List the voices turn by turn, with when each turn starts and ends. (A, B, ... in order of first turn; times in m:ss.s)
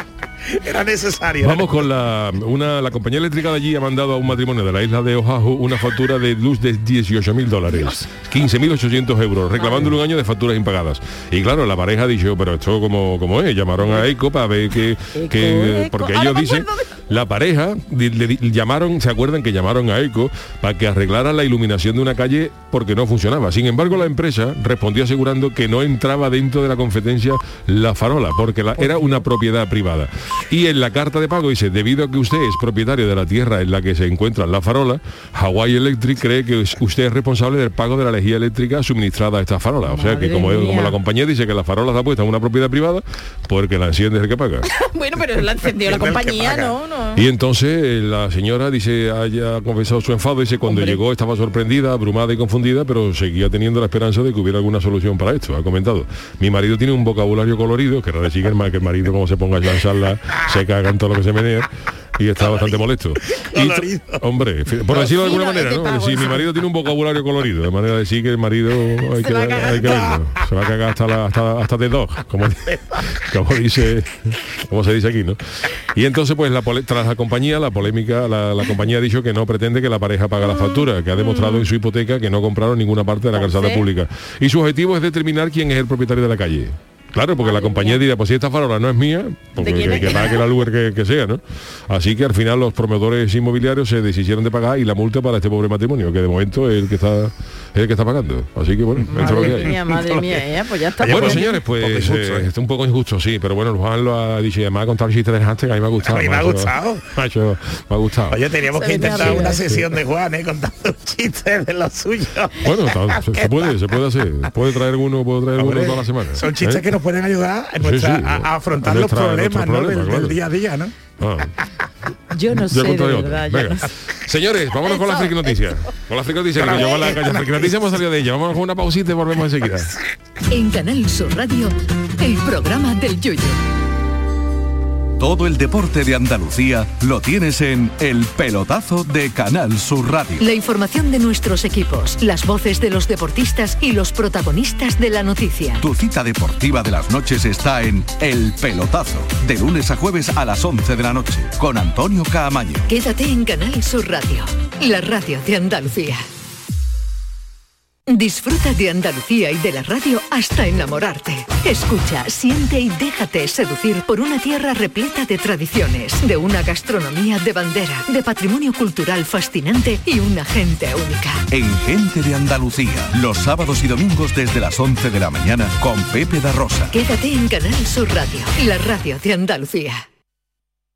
0:00.4-0:01.8 A
0:01.4-0:44.7 B
0:07.7-0:08.0 C
0:09.6-0:09.9 C
0:13.8-0:14.1 C
0:15.1-0:17.0 C
0:28.9-0:29.2 C
0:39.8-0:41.0 C
0:44.6-0:47.3 C
0:45.8-0:46.8 A
0:47.1-1:15.4 B
0:50.6-0:51.0 C
1:02.4-1:04.3 A
1:04.9-1:06.4 C
1:09.1-1:10.1 C
1:09.8-1:10.2 A
1:12.7-1:13.0 A
1:15.9-1:39.8 B
1:21.3-1:21.6 C
1:23.3-1:23.8 C
1:27.4-1:28.0 C
1:29.6-1:30.4 C
1:39.1-1:41.6 C
1:39.1-1:40.2 A
1:41.0-1:48.4 B
1:41.0-1:41.5 A
1:46.0-1:47.1 A
1:48.3-1:53.8 A
1:48.7-1:49.6 C
1:49.0-1:49.8 B
1:52.6-1:56.9 B
1:55.5-2:01.0 A
1:57.8-2:00.4 B
2:01.2-2:01.5 B
2:02.3-2:03.9 C
2:02.5-2:09.9 B
2:04.8-2:05.8 C
2:06.5-2:07.7 A
2:10.5-2:13.6 D
2:15.2-2:20.5 E
2:20.4-2:25.8 D
2:25.8-2:32.9 E
2:32.9-2:36.2 D
2:38.1-2:51.4 D
2:51.5-2:57.0 E
2:56.9-3:00.0 D